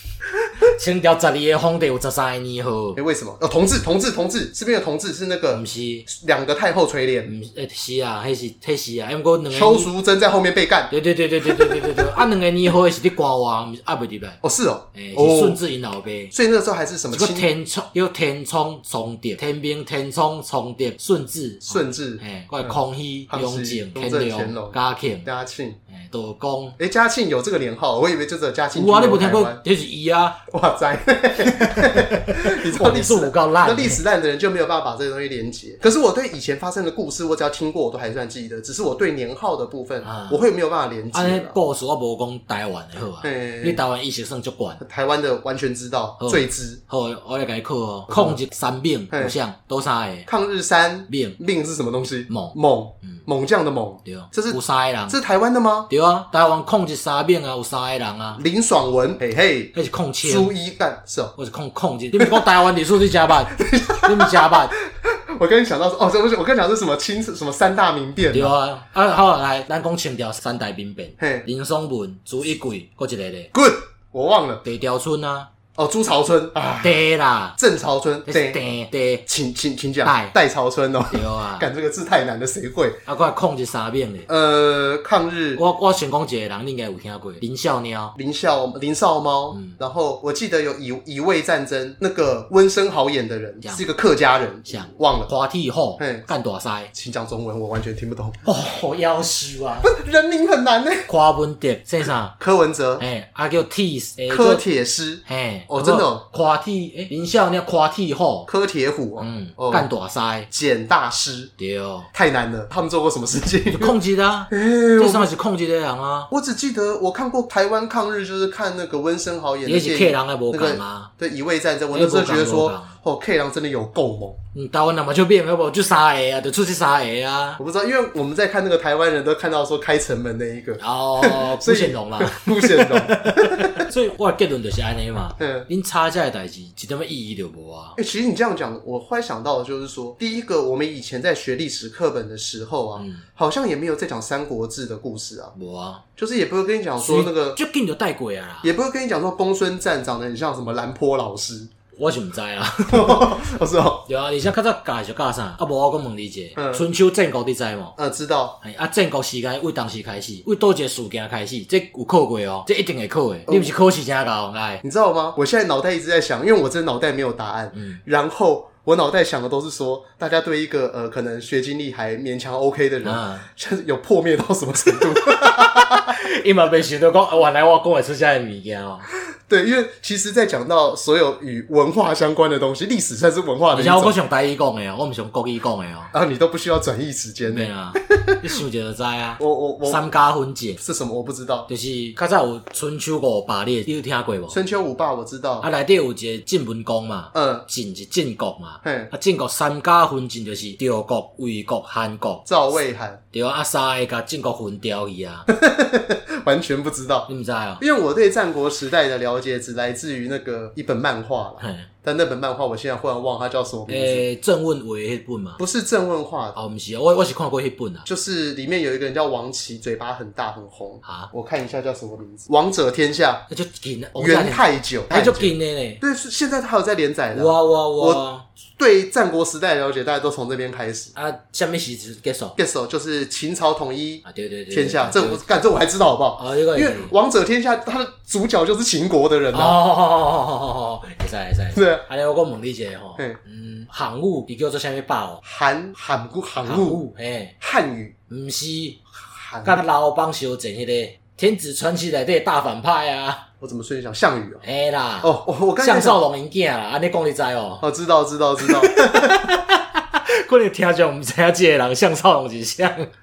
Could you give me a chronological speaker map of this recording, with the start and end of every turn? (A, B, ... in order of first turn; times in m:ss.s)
0:00.6-0:03.0 A
0:03.0-0:07.3 B
0:05.5-0:06.1 A
0:07.2-0:09.9 A
0:09.5-0:10.9 B
0:10.9-0:14.4 A
0:11.5-0:11.9 B
0:14.4-0:15.6 B
0:14.9-0:16.3 A
0:16.3-0:17.5 B
0:17.1-0:25.3 A
0:21.7-0:22.7 B
0:23.3-0:25.8 B
0:25.9-0:26.8 A
0:26.8-0:29.6 B
0:28.7-0:30.4 A
0:30.5-0:41.6 B
0:31.4-0:34.0 A
0:40.0-0:40.4 A
0:41.1-0:44.8 A
0:43.2-0:43.8 B
0:44.8-0:46.8 B
0:46.2-0:50.3 A
0:48.1-0:48.4 B
0:50.3-0:55.9 B
0:51.1-0:51.4 A
0:52.3-0:53.2 A
0:54.0-0:55.2 A
0:55.9-0:58.4 A
0:58.4-1:01.3 B
0:59.7-1:00.5 A
1:01.4-1:04.7 A
1:02.2-1:02.5 B
1:03.5-1:08.5 B
1:08.3-1:13.5 A
1:11.2-1:11.5 B
1:13.5-1:14.6 B
1:14.6-1:15.5 A
1:15.8-1:17.0 B
1:16.8-1:17.6 A
1:17.6-1:18.6 B
1:18.3-1:19.2 A
1:19.3-1:23.0 B
1:20.0-1:20.3 A
1:21.1-1:21.7 A
1:23.0-1:24.3 A
1:24.3-1:25.6 B
1:25.6-1:28.2 A
1:28.2-1:35.3 B
1:29.5-1:29.8 A
1:34.7-1:36.9 A
1:36.0-1:36.2 B
1:36.9-1:38.4 B
1:38.4-1:39.9 A
1:39.8-1:41.1 B
1:41.1-1:42.3 A
1:42.4-1:43.0 B
1:43.0-1:44.6 A
1:44.3-1:46.2 B
1:45.2-1:48.5 A
1:48.5-1:49.9 B
1:49.2-1:50.5 A
1:50.5-1:51.5 B
1:51.6-1:52.1 A
1:52.1-1:54.0 B
1:53.7-1:56.3 A
1:54.5-1:55.3 B
1:56.3-2:04.4 B
1:59.6-2:01.1 A
2:01.9-2:02.9 A
2:04.5-2:07.6 A
2:07.6-2:13.9 B
2:10.8-2:18.0 A
2:15.4-2:15.7 B
2:18.0-2:25.5 B
2:23.0-2:23.2 A
2:25.6-2:26.0 A
2:26.2-2:27.6 B
2:27.0-2:28.7 A
2:28.6-2:31.7 B
2:31.9-2:33.4 A
2:32.9-2:34.0 B
2:34.1-2:38.0 A
2:36.6-2:36.8 B
2:38.0-2:38.6 B
2:38.6-2:44.8 A
2:44.8-2:56.1 B
2:47.7-2:48.0 A
2:53.0-2:53.5 A
2:55.1-2:59.1 A
2:59.5-3:04.2 B
3:03.7-3:06.1 A
3:06.1-3:08.4 B
3:07.5-3:10.8 A
3:09.4-3:10.0 B
3:10.8-3:11.7 B
3:11.7-3:14.6 A
3:14.5-3:15.7 B
3:15.6-3:22.4 A
3:17.3-3:17.6 B
3:18.8-3:19.1 B
3:22.4-3:23.2 B
3:23.3-3:25.5 A
3:25.5-3:34.2 B
3:27.3-3:27.8 A
3:31.6-3:31.9 A
3:33.9-3:35.6 A
3:35.6-3:36.6 B
3:36.5-3:38.0 A
3:38.0-3:43.4 B
3:41.0-3:41.3 A
3:43.5-3:46.0 A
3:44.2-3:48.2 B
3:47.3-3:48.4 A
3:48.8-3:51.1 B
3:51.2-3:52.6 A
3:52.6-3:59.8 B
3:54.2-3:55.4 A
3:56.4-3:57.1 A
3:59.5-4:05.4 A
4:01.7-4:02.0 B
4:05.4-4:07.0 B
4:06.6-4:07.5 A
4:07.6-4:08.1 B
4:08.3-4:09.0 A
4:09.3-4:09.8 B
4:09.6-4:13.4 A
4:13.6-4:14.6 B
4:14.6-4:17.8 A
4:15.2-4:16.2 B
4:17.8-4:19.4 B
4:18.6-4:23.1 A